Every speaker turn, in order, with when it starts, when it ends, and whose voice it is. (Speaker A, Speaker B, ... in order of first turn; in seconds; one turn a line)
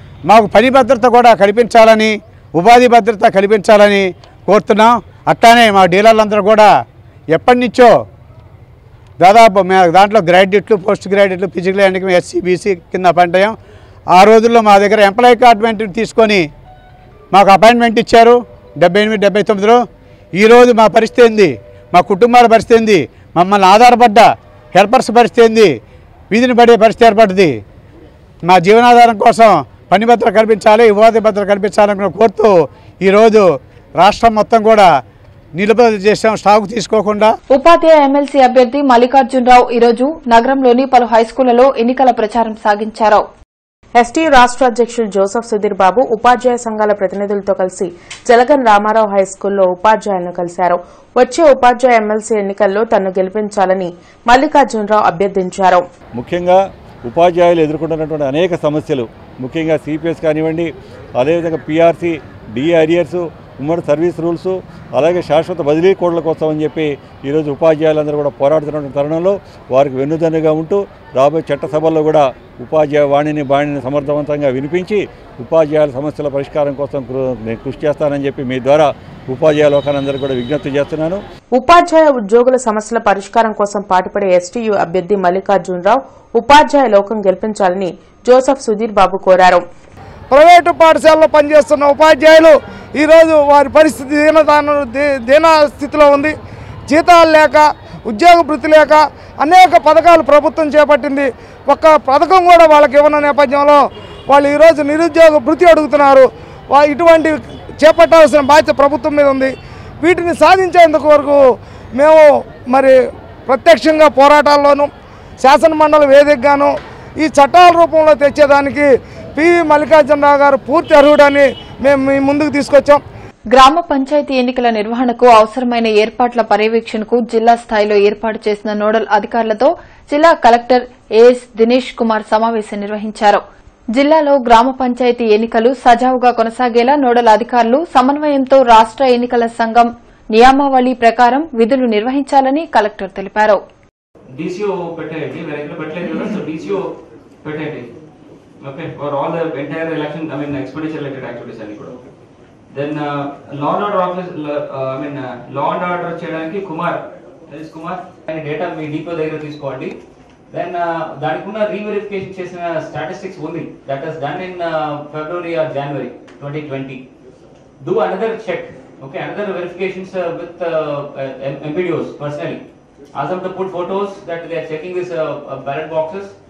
Speaker A: 0.3-6.7
Speaker A: 7.3-8.0
Speaker A: 9.2-13.6
Speaker A: 14.1-16.5
Speaker A: 17.3-19.8
Speaker A: 20.4-25.7
Speaker A: 26.3-27.6
Speaker A: 28.5-32.5
Speaker A: 33.0-33.4
Speaker A: 34.0-34.9
Speaker A: 35.6-37.3
Speaker B: 37.5-43.2
Speaker C: 44.0-55.8
Speaker D: 56.2-81.2
Speaker C: 81.5-89.6
Speaker E: 90.3-96.3
Speaker E: 96.9-111.4
Speaker E: 112.0-113.0
Speaker E: 113.5-123.0
Speaker B: 123.5-133.4
Speaker B: 133.9-143.6
Speaker F: 144.3-147.9
Speaker F: 148.6-152.0
Speaker F: 152.7-159.9
Speaker F: 160.5-167.0
Speaker F: 167.8-172.6
Speaker F: 173.1-176.3